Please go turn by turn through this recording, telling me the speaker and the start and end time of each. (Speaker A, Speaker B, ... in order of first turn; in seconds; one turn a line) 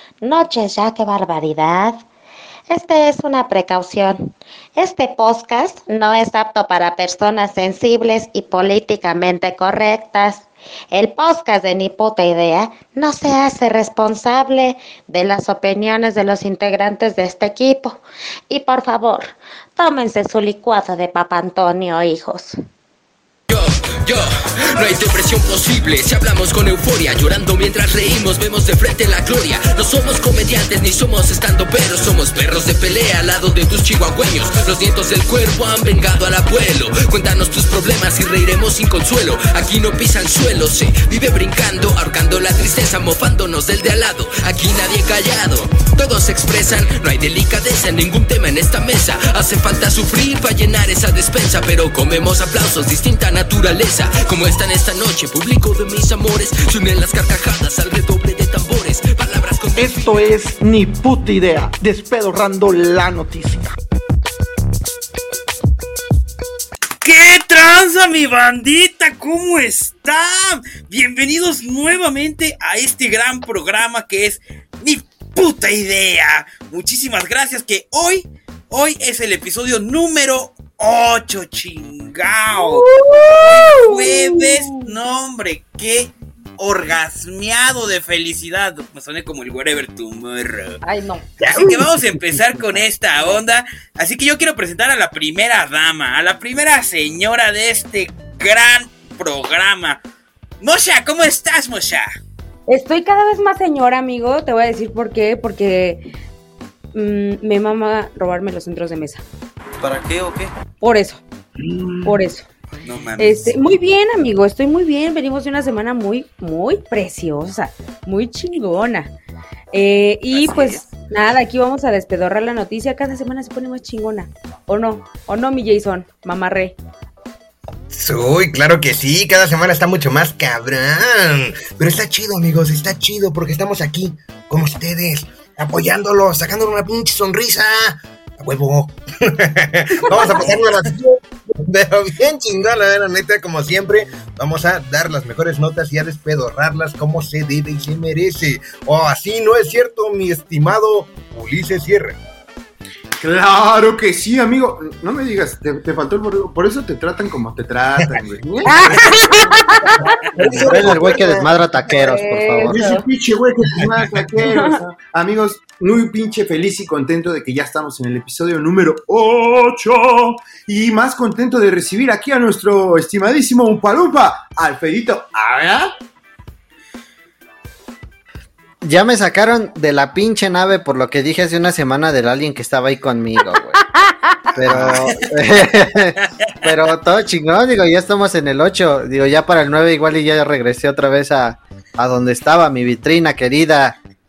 Speaker A: 0.2-2.0
Speaker A: 2.7-22.6
Speaker B: 23.5-60.3
Speaker C: 59.8-63.7
Speaker D: 67.0-90.8
Speaker E: 82.8-84.9
Speaker E: 90.8-91.2
Speaker D: 91.4-100.0
Speaker D: 100.6-102.1
Speaker E: 102.7-106.0
Speaker E: 106.9-109.2
Speaker D: 109.8-110.5
Speaker E: 110.8-111.2
Speaker F: 111.6-112.2
Speaker E: 112.0-112.5
Speaker D: 112.8-113.5
Speaker E: 113.2-119.1
Speaker E: 119.7-126.8
Speaker D: 120.3-120.8
Speaker G: 127.9-152.2
Speaker E: 140.1-140.4
Speaker F: 153.2-159.7
Speaker E: 158.6-160.2
Speaker G: 160.3-161.5
Speaker H: 160.4-162.8
Speaker E: 161.9-163.1
Speaker F: 162.7-175.9
Speaker E: 164.4-164.8
Speaker H: 178.8-183.8
Speaker E: 183.8-184.5
Speaker H: 184.5-193.9
Speaker G: 184.5-185.1